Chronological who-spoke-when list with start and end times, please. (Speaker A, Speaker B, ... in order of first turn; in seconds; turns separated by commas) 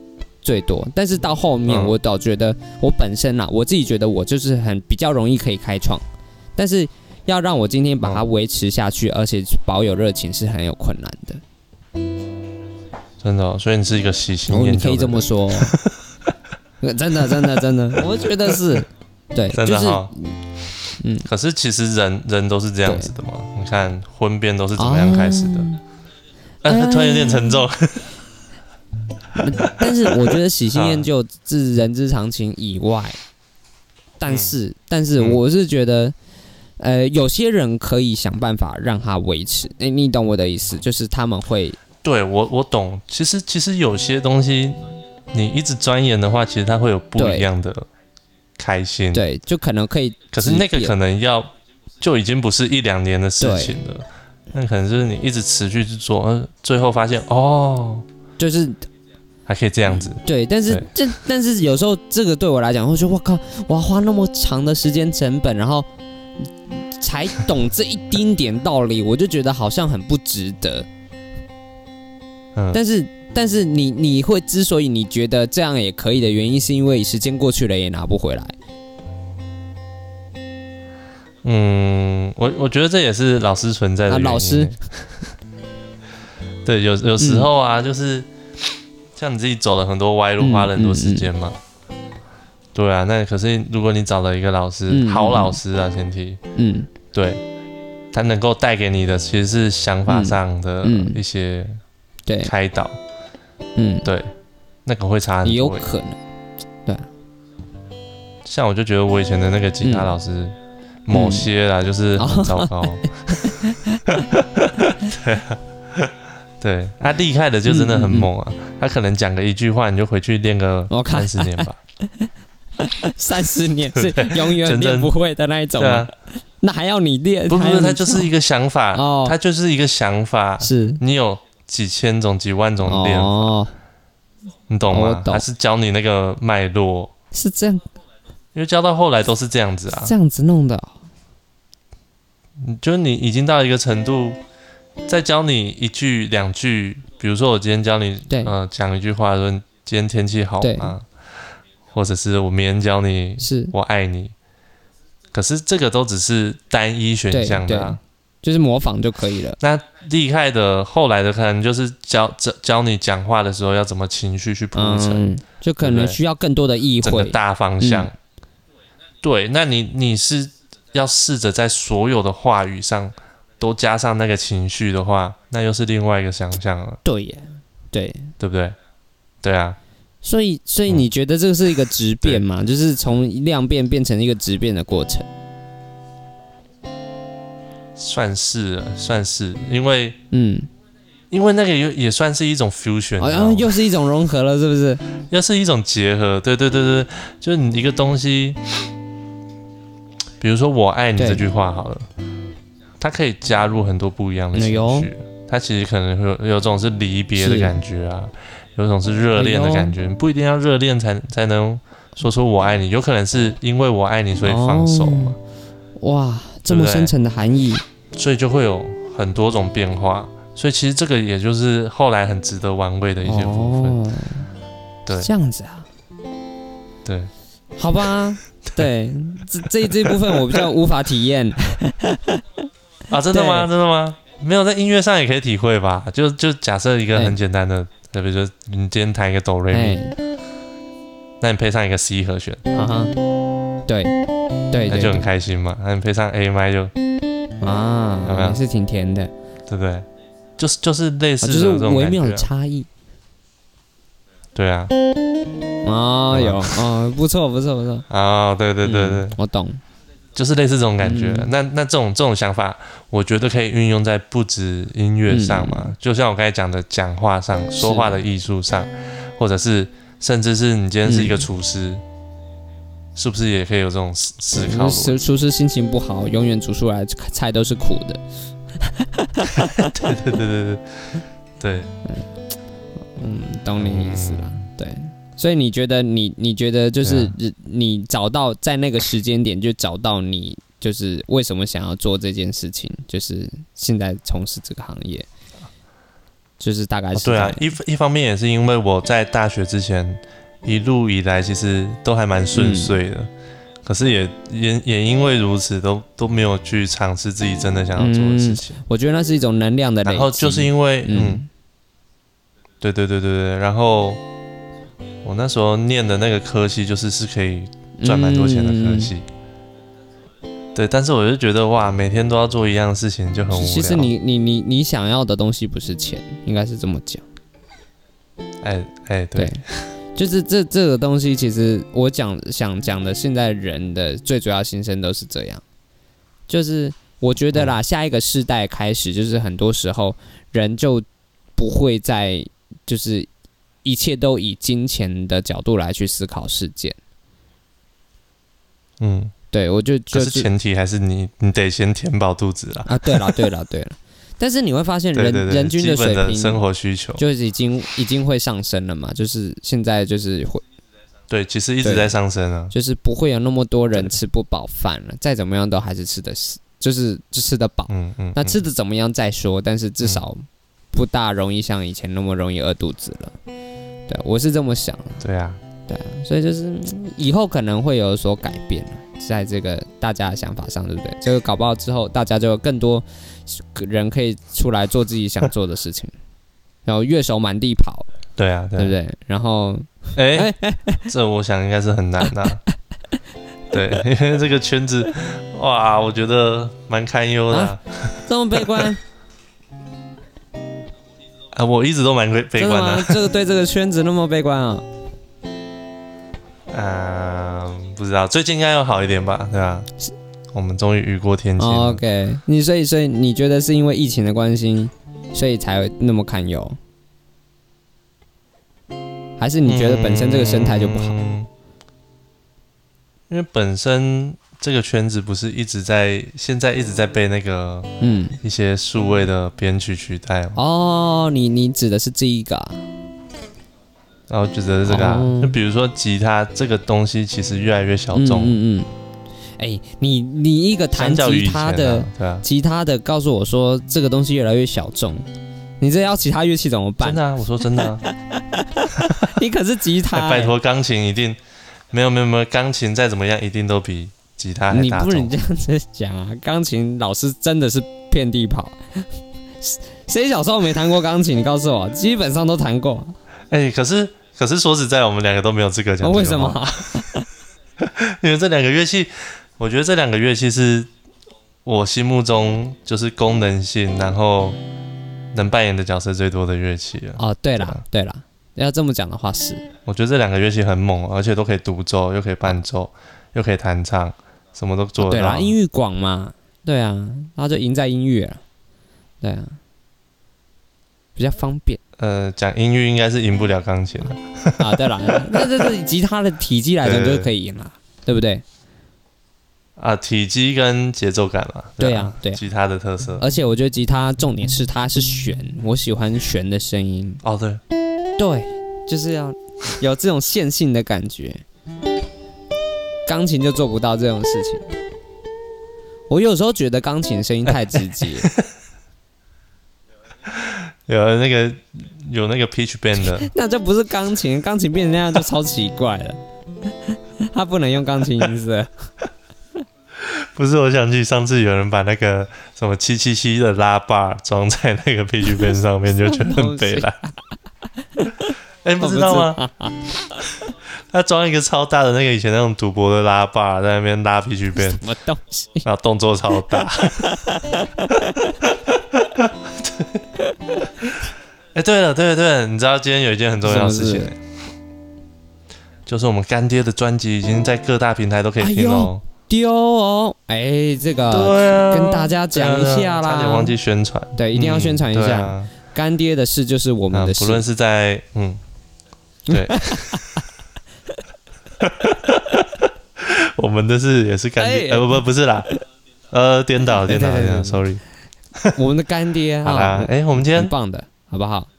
Speaker A: 0.4-6.0, Speaker B: 1.7-2.0, Speaker A: 6.6-11.4, Speaker B: 13.2-16.0, Speaker A: 14.5-15.8, Speaker A: 16.8-20.4, Speaker B: 17.2-18.8, Speaker B: 19.5-20.1, Speaker A: 21.0-21.3, Speaker B: 21.2-25.7, Speaker A: 22.9-23.1, Speaker A: 24.8-25.8, Speaker B: 26.6-28.2, Speaker A: 26.7-27.6, Speaker A: 29.4-33.2, Speaker B: 30.1-31.1, Speaker A: 34.2-36.1, Speaker B: 34.3-34.5, Speaker A: 36.8-41.8, Speaker B: 42.0-47.9, Speaker A: 47.2-47.5, Speaker B: 48.6-49.2, Speaker A: 49.1-50.9, Speaker B: 50.3-58.1, Speaker A: 53.4-53.8, Speaker A: 58.4-58.9, Speaker B: 59.5-60.9, Speaker A: 60.2-65.9, Speaker A: 66.4-70.9, Speaker B: 72.5-72.8, Speaker A: 72.7-78.5, Speaker B: 81.4-85.3, Speaker A: 84.1-84.7, Speaker B: 86.7-88.3, Speaker A: 87.2-87.5, Speaker B: 89.2-91.6, Speaker A: 90.4-91.3, Speaker B: 92.8-96.4, Speaker A: 94.9-95.6, Speaker A: 96.5-96.9, Speaker B: 97.1-97.4, Speaker B: 98.1-101.8, Speaker A: 100.1-101.2, Speaker A: 102.3-102.5, Speaker B: 102.5-103.0, Speaker A: 103.8-104.1, Speaker B: 104.0-104.3, Speaker B: 104.8-105.8, Speaker A: 105.4-106.2, Speaker B: 108.5-121.8, Speaker A: 109.8-110.1, Speaker A: 111.1-111.5, Speaker A: 112.2-114.3, Speaker A: 117.7-118.3, Speaker A: 120.9-122.3, Speaker A: 122.8-126.1, Speaker B: 124.0-125.1, Speaker B: 125.8-126.1, Speaker A: 126.6-128.3, Speaker B: 127.5-133.5, Speaker A: 128.9-129.4, Speaker A: 130.6-131.0, Speaker A: 132.8-133.7, Speaker B: 134.7-137.1, Speaker A: 134.9-135.4, Speaker A: 137.3-137.9, Speaker B: 138.5-140.1, Speaker A: 140.0-141.0, Speaker B: 142.6-144.4, Speaker B: 145.1-151.1, Speaker A: 150.6-150.9, Speaker B: 151.9-154.3, Speaker A: 153.4-153.7, Speaker B: 155.3-158.0, Speaker A: 157.3-159.6, Speaker B: 159.6-166.2, Speaker A: 164.8-168.1, Speaker B: 167.0-168.1, Speaker B: 169.2-177.0, Speaker A: 177.1-178.3, Speaker B: 178.4-178.8, Speaker B: 179.4-179.8, Speaker A: 180.2-185.3, Speaker B: 188.0-190.2, Speaker A: 190.3-190.7, Speaker B: 191.3-193.8, Speaker A: 193.2-195.0, Speaker B: 195.3-198.6, Speaker B: 200.4-202.1, Speaker A: 201.2-201.4, Speaker B: 203.0-215.4, Speaker A: 204.6-205.1, Speaker A: 207.4-207.8, Speaker A: 209.3-209.9, Speaker A: 214.4-215.4, Speaker A: 216.0-217.8, Speaker B: 216.7-217.1, Speaker B: 218.1-224.0, Speaker A: 223.2-224.5, Speaker A: 225.1-225.9, Speaker B: 227.1-227.3, Speaker A: 227.8-232.4, Speaker B: 229.8-230.7, Speaker B: 233.1-240.0, Speaker A: 233.3-233.7, Speaker A: 239.7-240.2, Speaker B: 241.4-242.7, Speaker A: 242.7-243.1, Speaker A: 243.9-244.2, Speaker A: 244.7-245.2, Speaker B: 244.9-246.9, Speaker A: 247.6-249.3, Speaker B: 248.2-248.6, Speaker B: 249.7-252.5, Speaker A: 251.4-252.9, Speaker B: 254.6-254.9, Speaker A: 255.8-258.1, Speaker B: 256.3-256.8, Speaker B: 258.1-259.4, Speaker A: 258.8-259.8, Speaker B: 260.4-272.0, Speaker A: 261.0-261.5, Speaker A: 265.3-265.9, Speaker A: 267.8-268.1, Speaker A: 271.1-271.4, Speaker B: 273.2-275.2, Speaker A: 274.5-278.2, Speaker A: 278.8-279.9, Speaker B: 279.6-281.9, Speaker A: 283.2-295.3, Speaker B: 283.8-284.6, Speaker B: 287.0-287.4, Speaker A: 296.6-297.7, Speaker B: 297.1-303.3, Speaker A: 302.6-303.0, Speaker B: 303.8-308.8, Speaker A: 308.0-311.5, Speaker B: 310.0-311.4, Speaker B: 312.8-314.2, Speaker B: 315.2-319.3, Speaker A: 318.0-319.1, Speaker B: 320.7-324.1, Speaker A: 323.5-327.2, Speaker B: 328.6-329.9, Speaker A: 329.4-329.6, Speaker A: 330.1-335.6, Speaker A: 336.5-341.1, Speaker A: 341.6-343.3, Speaker A: 343.8-347.0, Speaker B: 349.0-349.3, Speaker A: 349.5-350.5, Speaker B: 350.1-353.4, Speaker A: 352.9-356.6, Speaker B: 355.1-357.2, Speaker A: 357.2-360.6, Speaker B: 361.3-362.7, Speaker A: 361.8-362.1, Speaker A: 362.7-373.4, Speaker B: 367.9-368.6, Speaker A: 374.1-375.2, Speaker B: 375.2-375.6, Speaker A: 375.9-386.1, Speaker A: 386.9-388.1, Speaker B: 388.4-388.9, Speaker A: 388.8-391.1, Speaker B: 390.2-390.5, Speaker B: 391.1-392.6, Speaker B: 393.7-398.9, Speaker A: 397.5-399.0, Speaker B: 401.5-403.3, Speaker A: 402.6-404.9, Speaker B: 406.7-409.9, Speaker B: 410.5-412.0, Speaker A: 411.6-416.8, Speaker A: 419.4-421.2, Speaker B: 419.7-421.5, Speaker B: 423.3-430.6, Speaker A: 428.0-428.4, Speaker A: 430.6-432.9, Speaker B: 434.3-438.6, Speaker A: 434.9-435.6, Speaker A: 438.1-438.9, Speaker A: 439.6-445.3, Speaker B: 440.9-442.4, Speaker A: 445.8-447.2, Speaker B: 447.0-448.1, Speaker A: 447.8-450.5, Speaker B: 450.1-451.4, Speaker B: 451.9-455.3, Speaker A: 454.7-459.0, Speaker A: 459.6-463.2, Speaker B: 463.5-467.0, Speaker A: 466.0-467.3, Speaker B: 467.8-470.9, Speaker B: 471.6-474.6, Speaker B: 475.3-477.8, Speaker A: 477.2-479.7, Speaker B: 479.9-485.6, Speaker A: 485.0-488.4, Speaker A: 489.2-489.6, Speaker A: 491.2-491.8, Speaker B: 492.0-495.7, Speaker A: 494.6-498.4, Speaker B: 496.8-497.3, Speaker B: 499.8-503.2, Speaker A: 501.8-502.4, Speaker A: 503.2-507.2, Speaker B: 507.2-507.6, Speaker A: 508.2-511.4, Speaker A: 513.1-514.7, Speaker A: 516.1-518.3, Speaker B: 517.7-518.5, Speaker B: 520.3-523.3, Speaker A: 523.0-526.2, Speaker A: 527.2-528.9, Speaker B: 530.0-537.0, Speaker A: 536.1-537.1, Speaker A: 538.0-539.9, Speaker B: 538.6-539.4, Speaker B: 540.9-544.8, Speaker A: 544.6-545.6, Speaker B: 545.6-547.2, Speaker A: 546.5-548.4, Speaker B: 548.4-550.0, Speaker B: 551.5-554.2, Speaker A: 553.4-554.1, Speaker B: 555.9-559.0, Speaker A: 558.4-563.6, Speaker B: 561.1-565.5, Speaker A: 564.2-567.5, Speaker B: 566.9-568.4, Speaker A: 569.3-570.0, Speaker B: 569.3-570.2, Speaker B: 571.6-575.5, Speaker A: 574.4-575.0, Speaker B: 576.1-577.8, Speaker A: 576.8-577.6, Speaker A: 578.5-581.5, Speaker B: 579.4-580.5